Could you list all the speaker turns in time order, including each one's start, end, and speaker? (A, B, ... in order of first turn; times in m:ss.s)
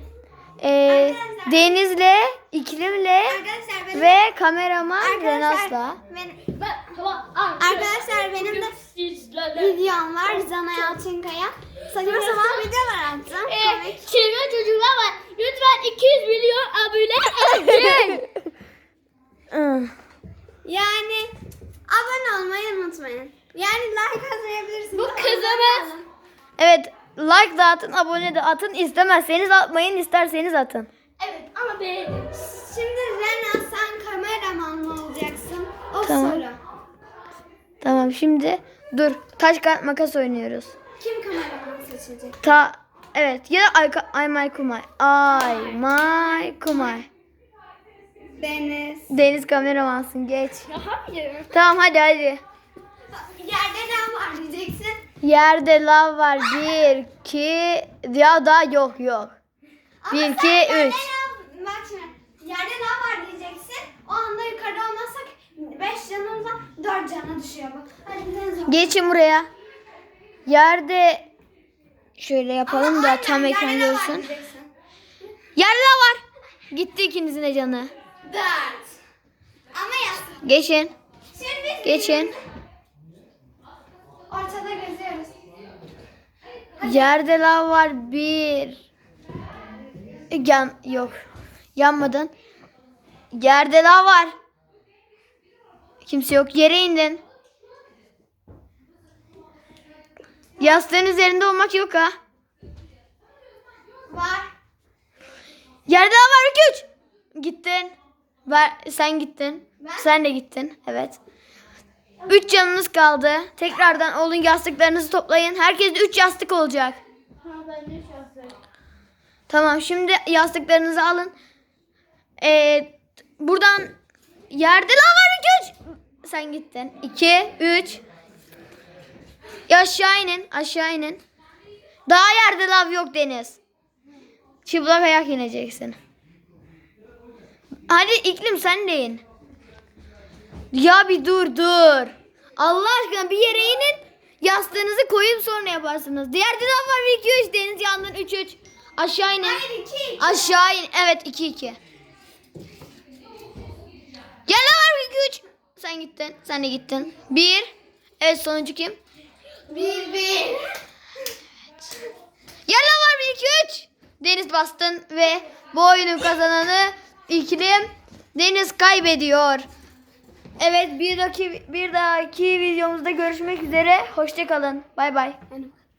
0:00.6-0:03.4 A
0:00.9-0:01.8 B
0:03.3-0:04.2 B
0:03.9-0:06.0 A
0:05.0-0:06.5 B
0:06.6-0:09.8 C
0:07.6-0:08.8 B
0:09.5-0:14.1 B
0:12.0-0:12.7 C
0:13.4-0:18.3 C
0:19.5-0:19.9 A
0:20.6-0:21.3 B
0:21.9-0:26.0 B
0:24.9-0:25.9 C
0:26.6-0:30.9 A
0:31.2-0:32.3 C
0:32.3-0:36.6 B
0:36.0-0:36.4 A
0:37.8-0:40.8 A
0:41.0-0:42.4 B
0:42.4-0:47.1 A
0:48.4-0:49.1 B
0:49.1-0:50.7 A
0:50.8-0:51.4 C
0:51.5-0:52.4 A
0:53.1-0:55.0 B
0:55.2-0:59.4 A
1:00.0-1:08.9 B
1:00.1-1:01.1 A
1:08.7-1:09.5 A
1:10.5-1:11.3 A
1:12.2-1:14.3 A
1:12.7-1:14.7 B
1:15.6-1:17.9 A
1:18.2-1:18.9 B
1:19.7-1:20.4 B
1:20.4-1:20.9 A
1:21.3-1:22.3 B
1:21.8-1:22.3 A
1:24.3-1:25.3 B
1:26.8-1:28.8 A
1:30.3-1:31.2 A
1:31.8-1:32.3 A
1:33.3-1:34.3 A
1:36.0-1:37.2 A
1:40.6-1:42.1 A
1:44.1-1:44.5 B
1:45.9-1:47.9 A
1:48.5-1:51.2 A
1:49.8-1:50.1 B
1:52.3-1:57.0 A
1:57.4-1:58.5 C
1:59.5-2:01.3 A
2:02.4-2:04.0 A
2:04.5-2:08.0 A
2:09.7-2:11.2 A
2:12.1-2:13.6 A
2:14.6-2:16.0 A
2:17.9-2:19.2 A
2:20.7-2:29.6 A
2:29.4-2:30.5 B
2:30.2-2:31.8 A
2:34.5-2:39.0 A
2:39.7-2:40.7 B
2:42.7-2:49.6 A
2:50.6-2:55.4 A